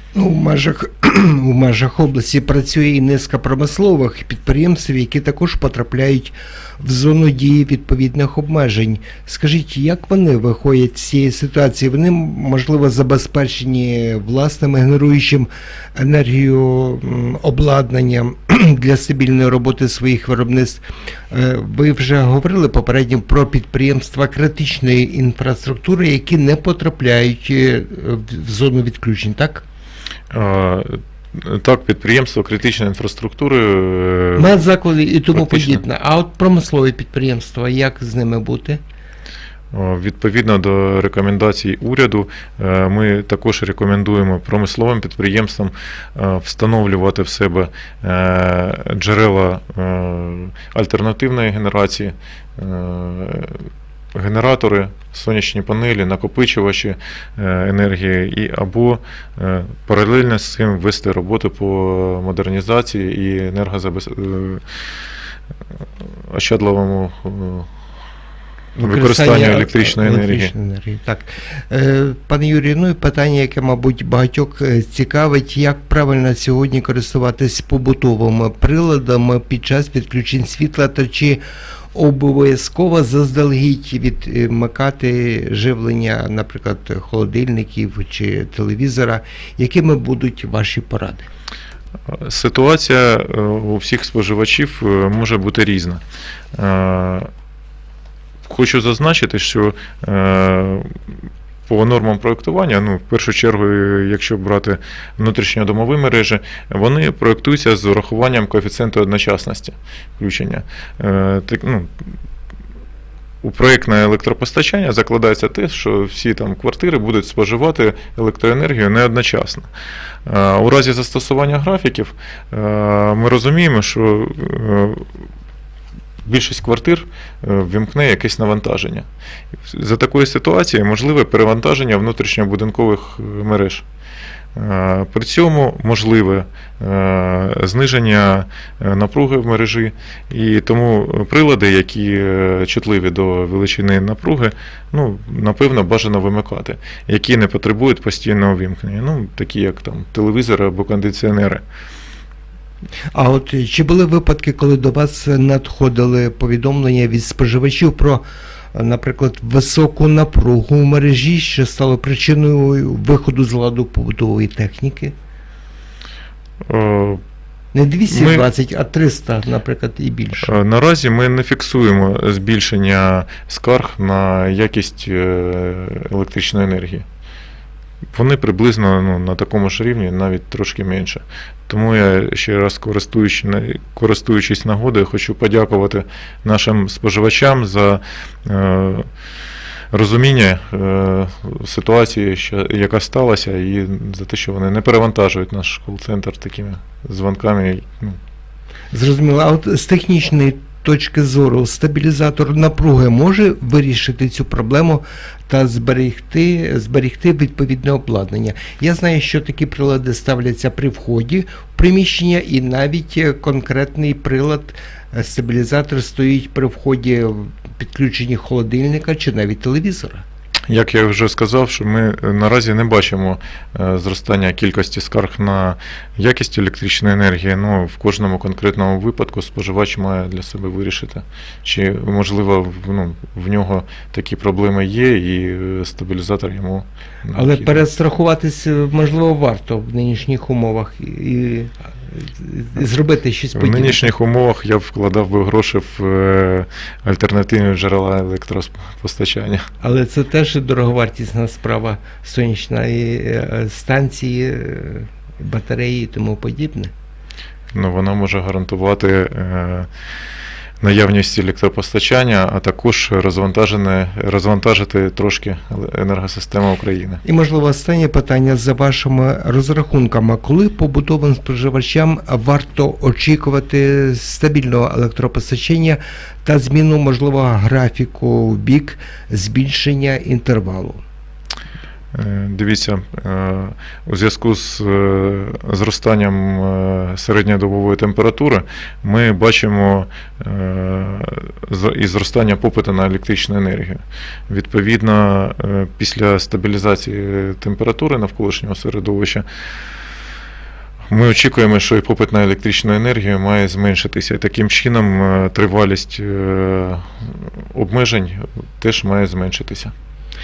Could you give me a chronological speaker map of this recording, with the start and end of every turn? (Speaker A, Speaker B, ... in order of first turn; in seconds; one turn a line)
Speaker A: 0.1-29.6
Speaker B: 30.3-34.5
Speaker A: 34.4-38.8
Speaker B: 35.3-35.8
Speaker B: 39.7-64.6
Speaker B: 66.3-67.7
Speaker A: 68.8-81.4
Speaker B: 68.8-70.5
Speaker A: 81.9-91.3
Speaker B: 92.1-96.0
Speaker B: 96.5-97.3
Speaker B: 98.5-100.9
Speaker B: 101.7-111.9
Speaker B: 113.4-119.7
Speaker B: 120.2-125.1
Speaker B: 126.2-129.1
Speaker B: 129.7-133.8
Speaker B: 134.5-151.6
Speaker A: 153.1-165.1
Speaker B: 166.7-167.2
Speaker A: 167.7-170.5
Speaker B: 168.1-168.5
Speaker B: 170.4-177.0
Speaker B: 178.1-189.1
Speaker B: 189.9-198.2
Speaker A: 198.9-220.2
Speaker B: 220.7-237.8
Speaker A: 237.3-244.1
Speaker B: 243.5-249.7
Speaker A: 249.8-256.9
Speaker B: 257.7-259.9
Speaker B: 260.8-267.2
Speaker A: 267.2-281.0
Speaker B: 282.1-299.4
Speaker B: 301.1-307.1
Speaker B: 307.7-309.9